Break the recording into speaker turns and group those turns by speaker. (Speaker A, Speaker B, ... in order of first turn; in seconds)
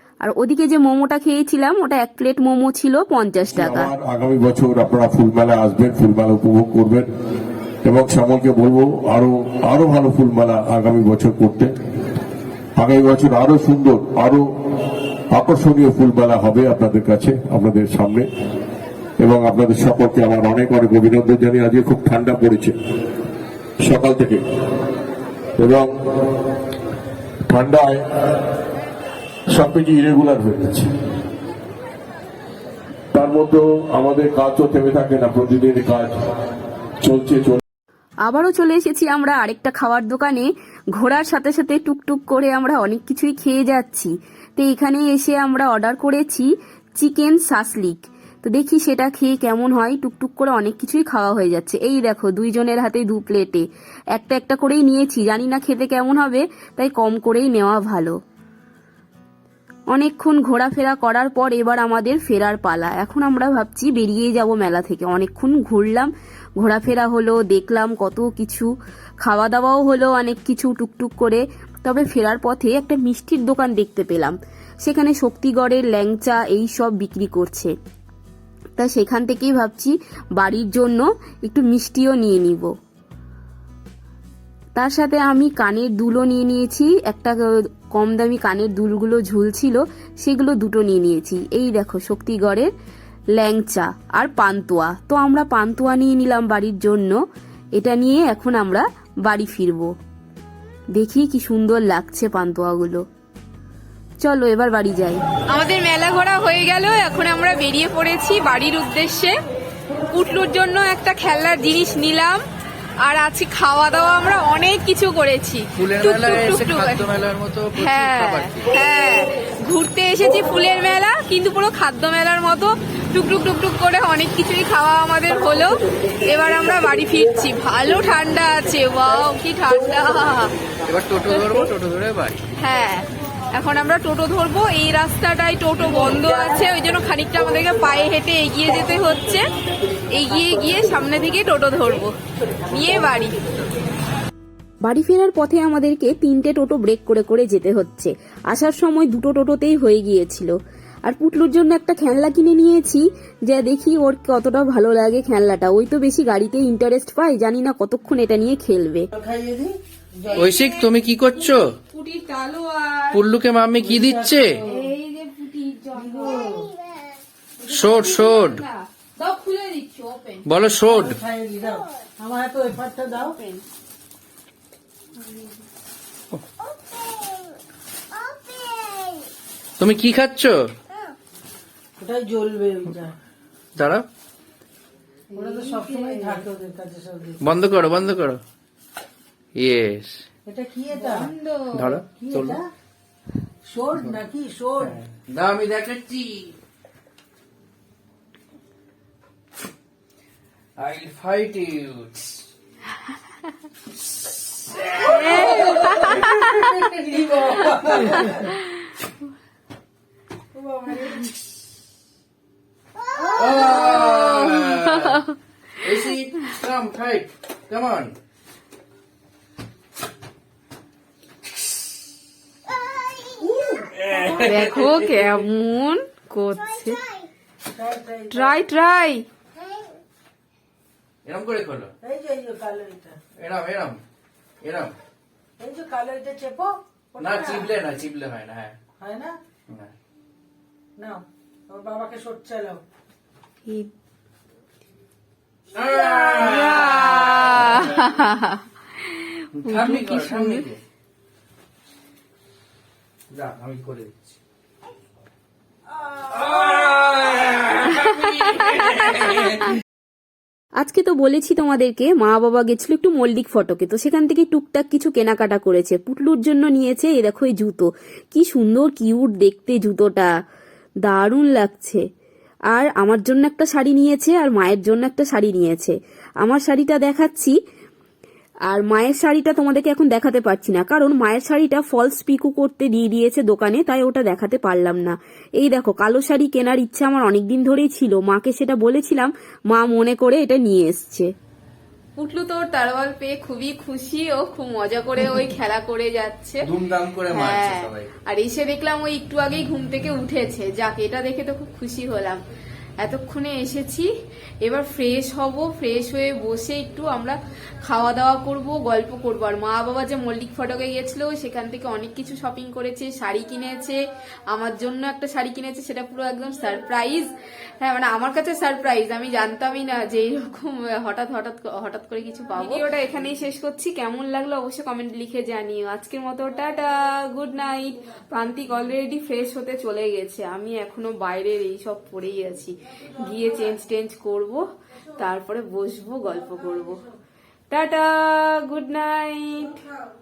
Speaker A: 0.2-3.9, 38.3-58.1, 59.9-68.7, 69.2-77.7, 78.8-82.7, 84.8-87.4, 87.9-92.7, 93.4-97.2, 97.8-99.9, 101.0-103.0, 104.2-105.2, 144.8-150.5, 151.1-159.1, 260.8-270.3, 271.1-272.0, 272.7-277.6, 278.7-291.3
Speaker B: 3.5-7.1, 7.8-11.7, 12.8-14.5, 15.3-18.3, 19.2-22.8, 23.8-24.4, 25.6-25.9, 27.5-28.3, 29.5-30.9, 33.1-36.2, 37.0-37.6
Speaker C: 105.5-109.3, 110.1-112.4, 113.0-117.1, 117.8-130.6, 132.6-139.4, 140.0-142.2, 142.7-143.4, 160.3-160.9, 161.9-163.2, 164.6-166.7, 167.8-170.4, 185.3-186.5, 190.9-192.0, 205.0-206.7, 224.4-227.0, 228.3-229.2, 246.4-250.6, 292.2-296.6, 297.3-302.4, 303.0-304.1, 304.6-314.0, 314.5-334.6, 335.2-337.1, 337.7-339.9
Speaker D: 115.8-118.8, 130.8-132.4, 160.4-161.7, 163.1-164.6, 167.7-168.6, 170.4-171.2, 179.8-180.6, 183.8-184.1, 187.5-188.4, 189.6-190.2, 191.7-192.6, 194.8-196.6, 200.8-202.4, 204.1-208.3, 213.3-218.1, 224.0-225.4, 231.2-231.9, 233.4-234.0, 234.6-234.9, 237.2-238.8, 245.7-248.0, 249.5-250.8, 253.3-254.4, 256.2-259.7, 296.6-298.1
Speaker E: 159.1-160.5, 163.8-164.9, 165.9-166.7, 170.9-173.4, 182.0-183.2, 185.3-187.4, 190.5-191.3, 192.1-192.7, 193.7-195.0, 205.0-208.5, 210.5-211.3, 223.4-224.5, 227.7-228.6, 232.0-233.2, 235.6-237.7, 239.0-239.4, 241.0-242.8